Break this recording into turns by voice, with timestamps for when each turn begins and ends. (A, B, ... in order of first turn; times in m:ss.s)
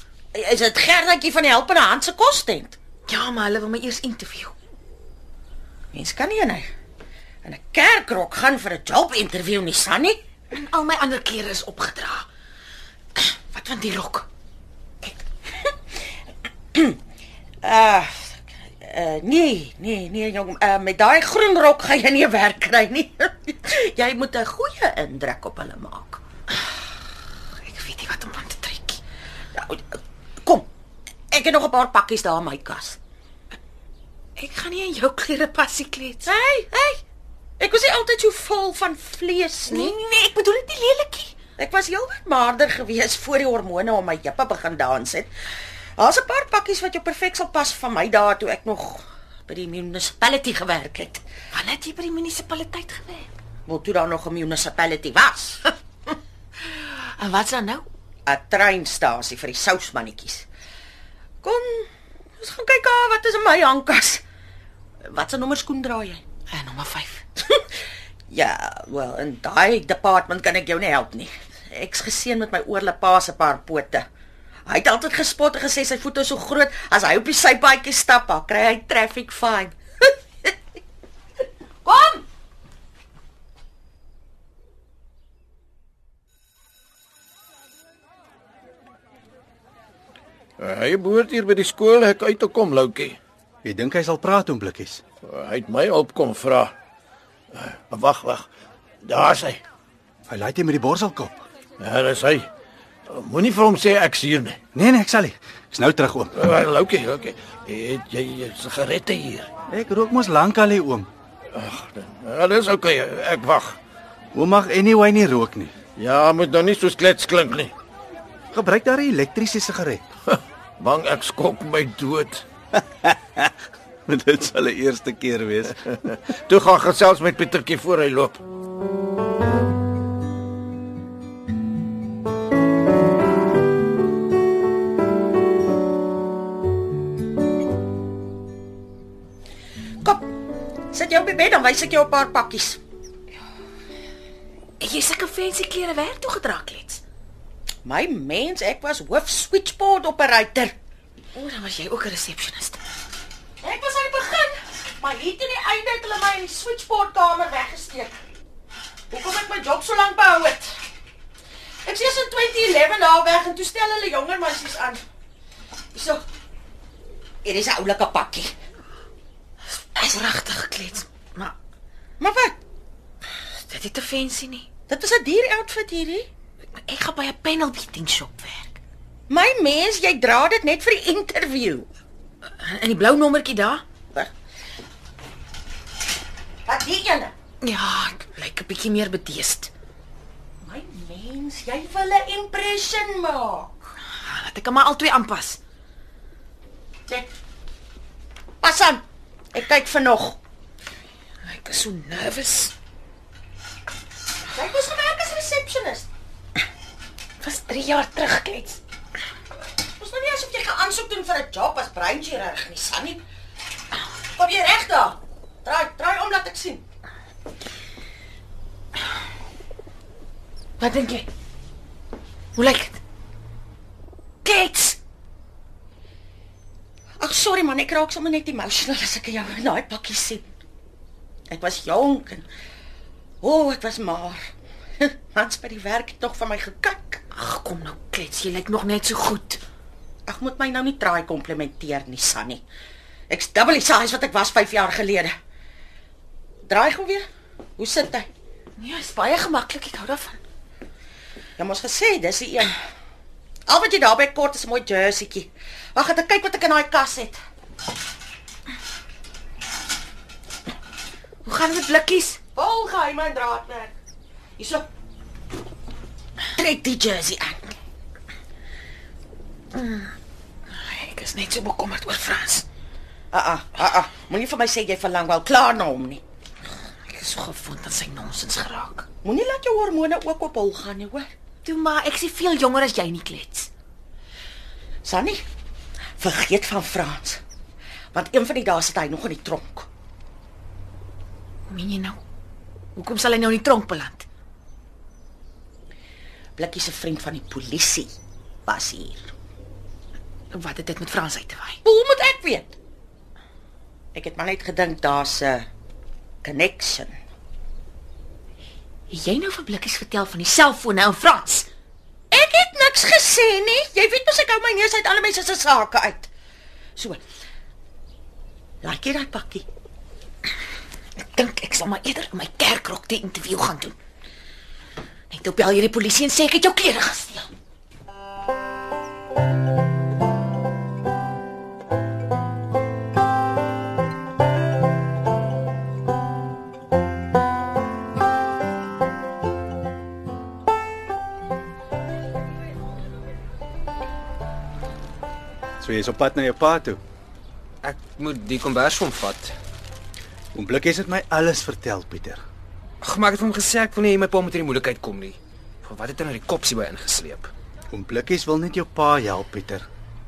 0:00.3-0:02.8 A
0:03.1-0:04.5 B
0:05.9-0:06.7 A
0:07.4-0:10.2 A
0:10.5-0:12.3 B
0:13.2-0:14.3 B
0:17.6-0:26.2 A
0:27.6-0:29.0 B
0:29.6-0:30.7 A
0:31.3-0:33.0 A
0:34.4-0:36.2 B
0:36.3-0:37.0 A
0:37.6-0:40.0 A
0:39.7-0:41.4 B
0:41.6-0:45.3 A
0:46.0-0:51.2 A
0:51.5-0:53.3 B
0:53.7-0:55.8 A
0:56.7-0:57.9 B
0:58.3-1:00.5 A
1:01.4-1:01.9 A
1:02.4-1:04.2 A
1:05.1-1:06.2 A
1:06.5-1:07.2 B
1:07.4-1:07.7 A
1:08.3-1:14.0 A
1:14.7-1:20.5 A
1:21.8-1:22.2 A
1:30.6-1:33.2 C
1:33.6-1:35.0 D
1:35.2-1:36.7 C
1:37.5-1:38.4 C
1:39.0-1:39.6 C
1:40.3-1:41.4 D
1:41.8-1:42.5 C
1:43.1-1:44.6 C
1:44.7-1:46.4 D
1:46.4-1:49.5 C
1:49.7-1:51.1 D
1:51.5-1:53.8 C
1:54.3-1:55.7 D
1:56.0-1:57.7 C
1:58.5-2:00.0 D
2:00.3-2:02.4 C
2:03.0-2:03.5 D
2:04.1-2:05.9 D
2:06.1-2:08.4 C
2:20.0-2:20.3 A
2:20.9-2:22.8 A
2:24.8-2:27.0 B
2:27.8-2:30.8 A
2:31.3-2:32.8 B
2:33.6-2:38.2 A
2:39.1-2:40.7 A
2:41.8-2:45.0 A
2:45.9-2:46.2 A
2:47.4-2:48.5 A
2:49.9-2:51.6 B
2:52.2-2:52.6 A
2:53.6-2:54.7 B
2:54.9-2:56.3 A
2:56.9-2:58.8 B
2:59.3-3:01.9 A
3:02.6-3:03.8 B
3:06.7-3:07.3 A
3:07.6-3:09.7 B
3:10.6-3:13.7 A
3:14.2-3:15.6 B
3:18.6-3:19.0 A
3:19.5-3:20.4 A
3:21.4-3:22.7 B
3:24.5-3:26.1 A
3:27.4-3:28.8 B
3:30.0-3:33.2 A
3:34.4-3:36.8 A
3:40.8-3:41.3 B
3:42.6-3:43.0 B
3:44.4-3:45.0 B
3:47.2-3:50.4 A
3:51.5-3:52.5 A
3:53.4-3:54.4 A
3:55.0-3:57.2 A
3:57.3-3:59.6 B
4:00.3-4:02.6 A
4:03.3-4:05.3 A
4:06.7-4:07.3 A
4:07.8-4:08.3 A
4:08.8-4:10.4 B
4:11.6-4:12.8 A
4:13.7-4:17.4 A
4:21.4-4:22.4 B
4:22.6-4:23.9 A
4:24.6-4:24.8 A
4:26.6-4:27.6 A
4:29.7-4:30.1 B
4:30.7-4:32.6 B
4:33.3-4:36.2 A
4:37.1-4:39.0 B
4:39.2-4:41.3 A
4:41.6-4:43.7 B
4:45.0-4:45.4 A
4:46.2-4:47.4 A
4:48.1-4:49.9 A
4:51.7-4:52.2 B
4:53.0-4:54.3 B
4:56.6-4:58.1 A
4:58.7-4:59.3 A
5:00.5-5:01.8 B
5:01.8-5:02.8 A
5:04.1-5:05.7 A
5:06.4-5:07.2 A
5:09.1-5:11.7 B
5:12.3-5:16.3 A
5:18.8-5:19.7 A
5:21.2-5:24.0 B
5:25.3-5:27.5 B
5:45.8-5:47.0 D
5:47.8-5:49.5 E
5:50.5-5:52.4 D
5:53.0-5:57.5 E
5:57.9-5:59.8 D